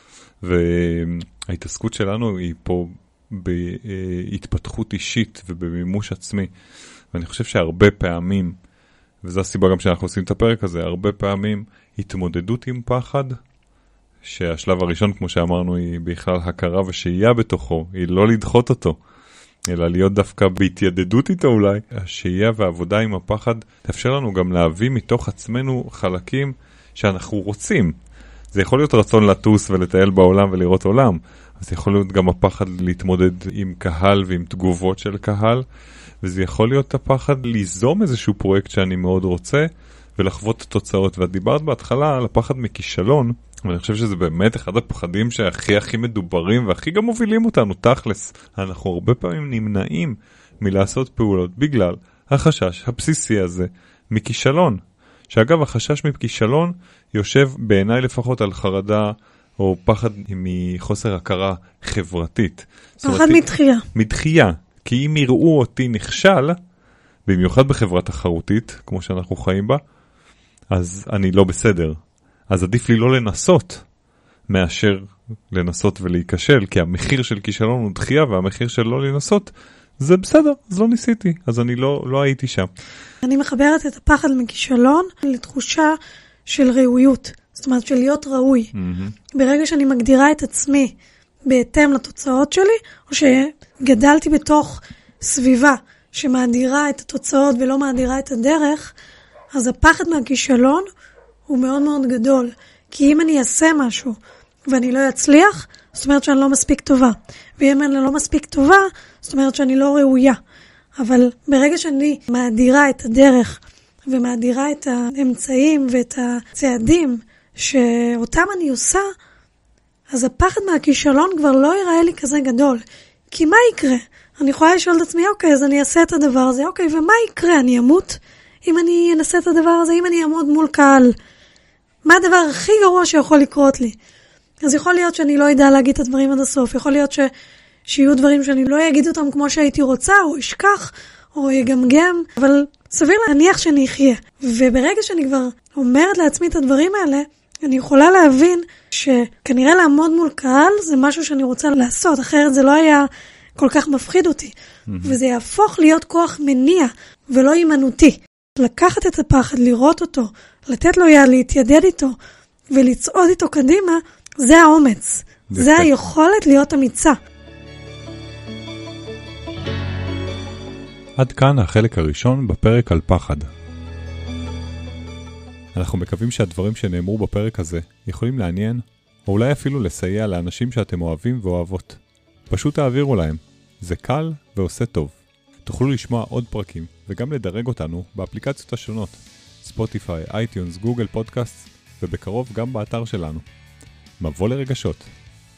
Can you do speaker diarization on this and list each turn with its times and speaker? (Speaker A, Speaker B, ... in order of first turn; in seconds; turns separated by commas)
Speaker A: 0.4-6.5, Speaker A: 7.1-8.6, Speaker A: 9.2-13.4, Speaker A: 14.2-19.0, Speaker A: 19.7-27.9, Speaker A: 28.5-35.6, Speaker A: 36.2-66.6, Speaker B: 63.0-63.9, Speaker A: 67.3-69.8, Speaker A: 70.7-72.0, Speaker A: 72.5-73.8, Speaker A: 74.5-82.7, Speaker B: 83.2-88.7, Speaker A: 88.7-89.2, Speaker B: 89.3-91.0, Speaker B: 91.5-99.0, Speaker B: 99.5-100.9, Speaker B: 101.5-104.2, Speaker B: 104.7-110.4, Speaker B: 111.0-119.1, Speaker B: 120.1-131.2, Speaker B: 132.1-134.0, Speaker B: 134.6-137.3, Speaker B: 137.9-162.2, Speaker A: 154.9-155.2, Speaker B: 162.7-167.2, Speaker A: 165.5-165.9, Speaker A: 171.2-173.5, Speaker A: 175.8-193.5, Speaker A: 194.2-195.1